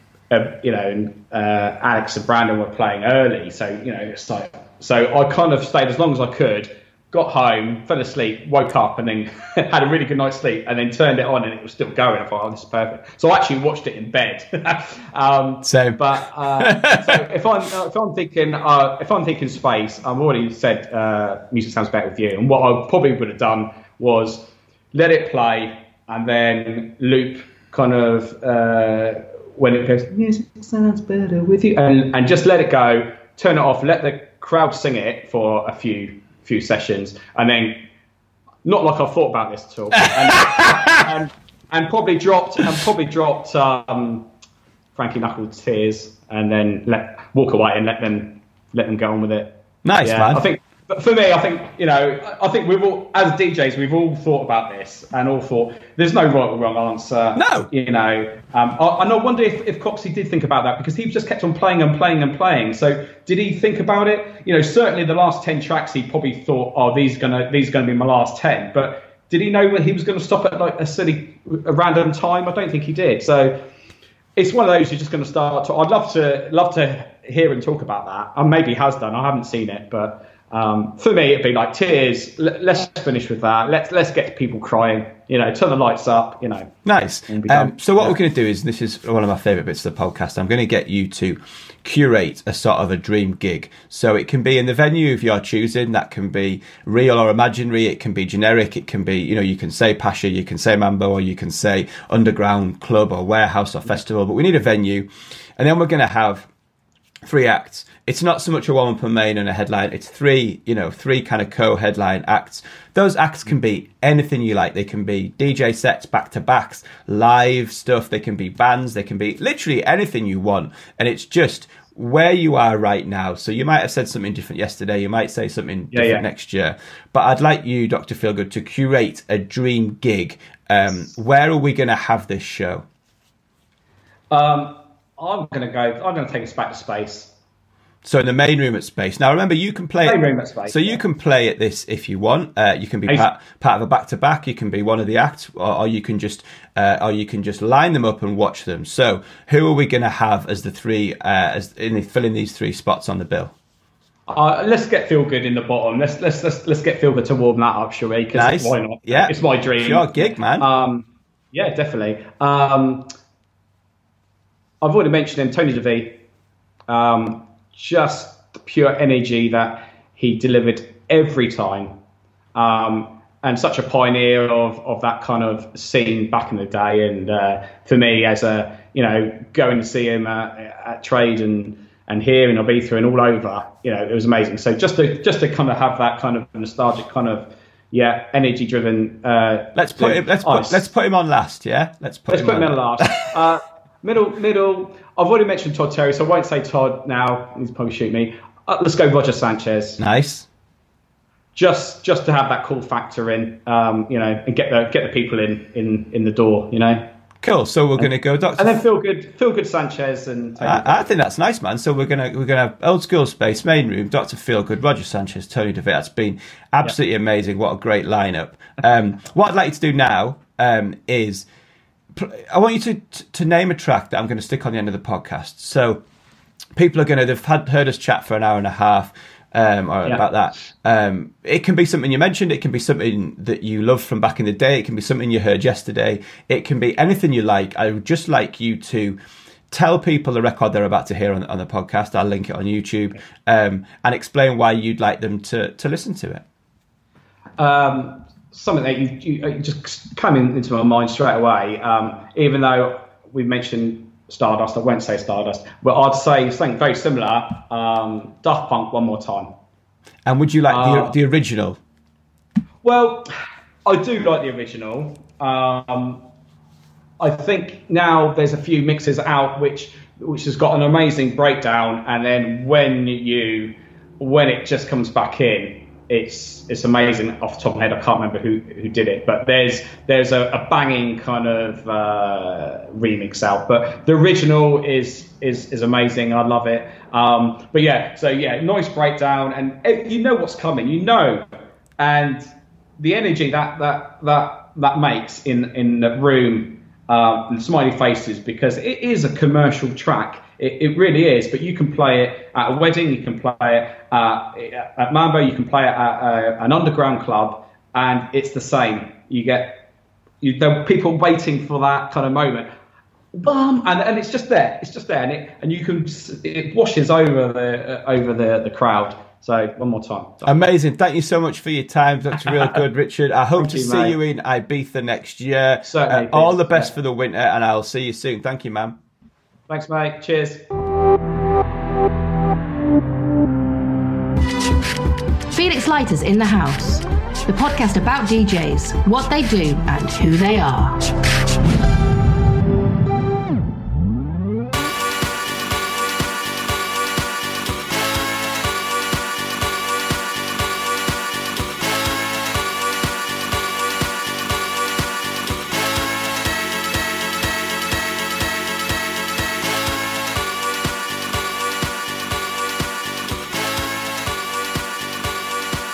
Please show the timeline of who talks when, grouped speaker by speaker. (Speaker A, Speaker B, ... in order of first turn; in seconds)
Speaker A: 0.3-37.9, 38.6-44.3, 45.0-73.6, 74.4-86.8, 87.3-88.2, 125.9-126.2, 134.3-137.3, 140.1-141.0, 154.3-163.1, 164.8-166.2, 166.9-171.9, 172.6-190.9, 192.3-200.0, 201.5-207.1, 208.0-211.1, 247.6-259.5, 260.7-261.1, 262.8-263.3, 263.9-266.2, 267.2-291.5, 292.0-292.5, 293.0-309.9, 310.4-312.7, 313.3-320.5, 323.6-324.2, 325.9-326.9, 329.7-330.7
Speaker B: 15.7-16.0, 16.6-17.2, 40.0-41.1, 49.9-50.4, 57.4-57.7, 86.8-106.5, 107.2-132.8, 138.1-153.5, 158.3-160.7, 189.8-193.3, 200.0-200.5, 207.4-208.8, 210.6-221.5, 222.2-226.0, 226.8-239.2, 239.7-246.4, 260.3-261.8, 320.4-329.0
Speaker C: 335.5-341.0